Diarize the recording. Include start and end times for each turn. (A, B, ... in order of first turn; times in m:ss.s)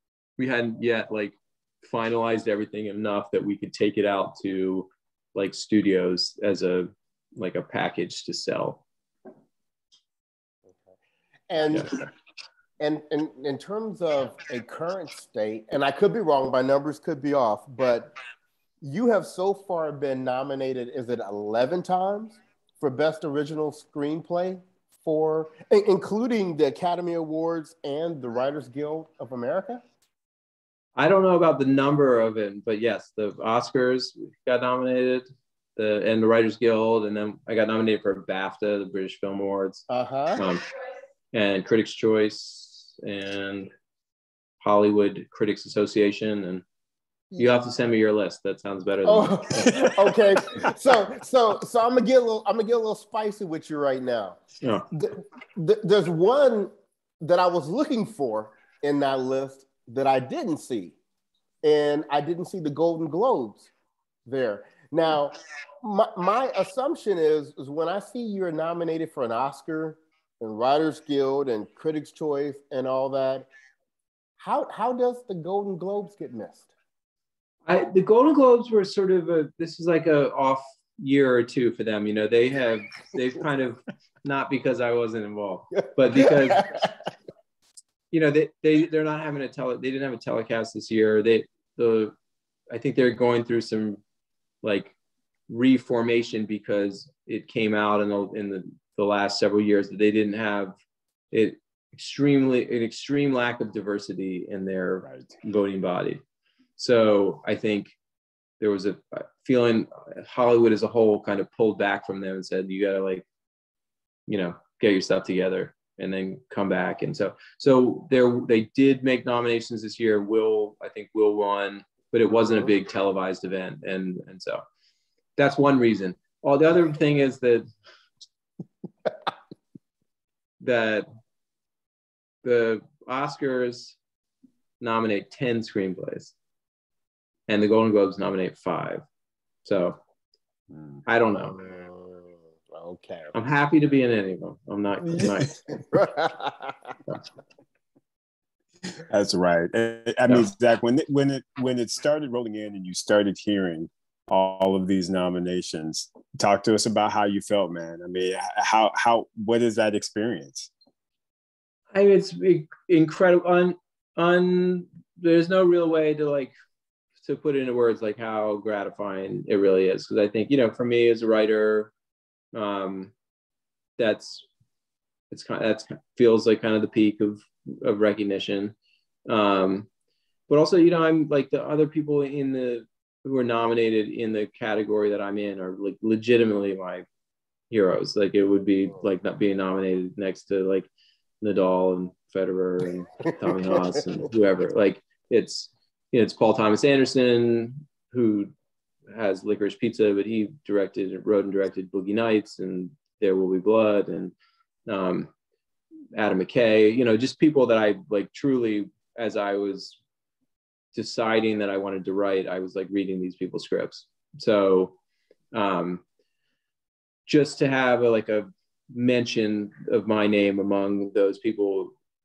0:00.4-0:08.8 A
0:11.5-0:12.0 B
0:12.8-0:18.1 B
0:18.8-0:29.8 B
0:31.0-0:40.6 A
0:39.9-0:40.4 B
0:41.3-0:43.7 A
0:44.6-0:46.6 A
0:47.3-0:47.6 B
0:47.4-0:49.7 A
0:49.0-0:54.4 B
0:54.6-0:54.9 A
0:54.9-1:01.0 B
1:01.6-1:03.7 B
1:04.2-1:13.5 B
1:14.4-1:16.7 B
1:17.6-1:26.7 A
1:26.1-1:26.9 B
1:28.1-1:32.1 A
1:32.7-1:34.0 A
1:34.6-1:34.9 A
1:35.5-1:40.7 A
1:41.3-1:46.2 A
1:46.8-1:47.9 A
1:48.6-1:53.2 A
1:54.3-2:04.6 A
2:05.4-2:07.6 A
2:10.6-2:11.0 A
2:12.4-2:14.0 A
2:14.8-2:16.3 A
2:17.5-2:19.0 A
2:19.6-2:20.0 A
2:20.7-2:21.0 C
2:21.1-2:21.5 A
2:21.4-2:23.3 B
2:23.3-2:25.8 A
2:25.0-2:27.0 B
2:28.9-2:40.7 C
2:41.9-2:46.5 A
2:47.2-2:51.9 A
2:52.5-2:53.1 A
2:54.0-2:54.4 A
2:55.3-2:58.7 A
2:59.3-2:59.9 A
3:00.5-3:07.0 A
3:07.7-3:10.9 A
3:11.4-3:18.5 A
3:13.3-3:14.0 B
3:19.1-3:24.3 A
3:24.9-3:25.3 A
3:26.1-3:30.0 A
3:30.9-3:34.9 A
3:35.5-3:36.0 A
3:37.3-3:41.9 A